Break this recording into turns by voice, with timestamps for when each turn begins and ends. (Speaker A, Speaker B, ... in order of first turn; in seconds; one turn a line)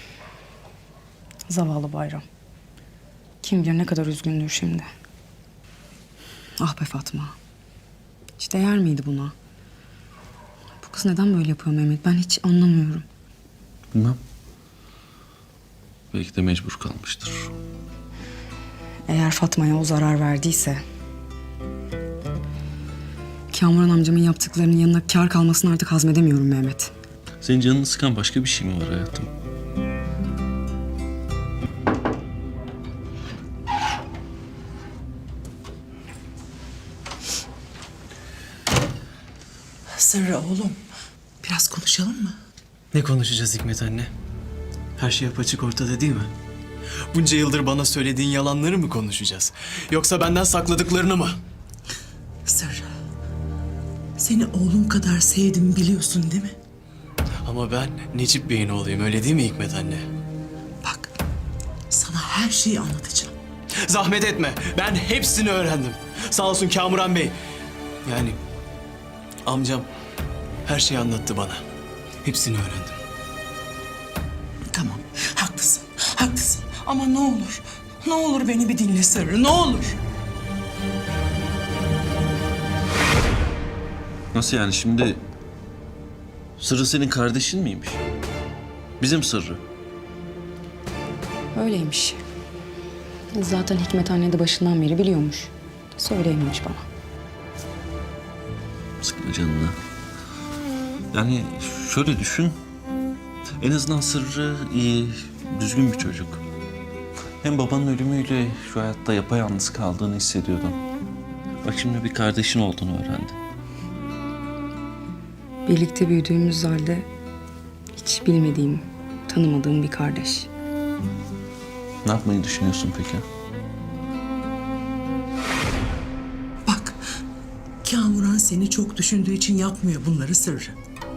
Speaker A: 1.5-2.2
Speaker A: 3.4-4.9
Speaker A: 6.6-7.3
Speaker A: 8.4-9.3
Speaker A: 10.8-13.0
Speaker B: 13.9-14.2
Speaker B: 16.1-17.5
Speaker A: 19.1-20.8
Speaker A: 23.5-26.9
Speaker B: 27.4-29.3
Speaker C: 39.9-40.8
Speaker C: 41.4-42.4
Speaker D: 42.9-44.1
Speaker D: 45.0-46.3
Speaker D: 47.1-51.4
Speaker C: 52.5-52.9
Speaker C: 54.2-56.5
Speaker D: 57.4-60.0
Speaker C: 60.8-61.1
Speaker C: 61.9-63.3
Speaker D: 63.8-67.3
Speaker D: 68.0-68.4
Speaker D: 69.4-69.9
Speaker D: 70.7-71.6
Speaker D: 72.2-73.0
Speaker C: 74.7-80.0
Speaker B: 84.3-85.2
Speaker B: 86.6-88.0
Speaker B: 89.0-89.6
Speaker A: 91.5-92.2
Speaker A: 93.3-96.8
Speaker B: 99.0-99.8
Speaker B: 101.1-102.5
Speaker B: 103.6-106.4
Speaker B: 107.4-110.8
Speaker B: 111.6-113.4
Speaker A: 115.7-117.1
Speaker A: 117.9-120.5
Speaker B: 122.0-123.2
Speaker C: 126.7-127.0
Speaker C: 127.8-130.8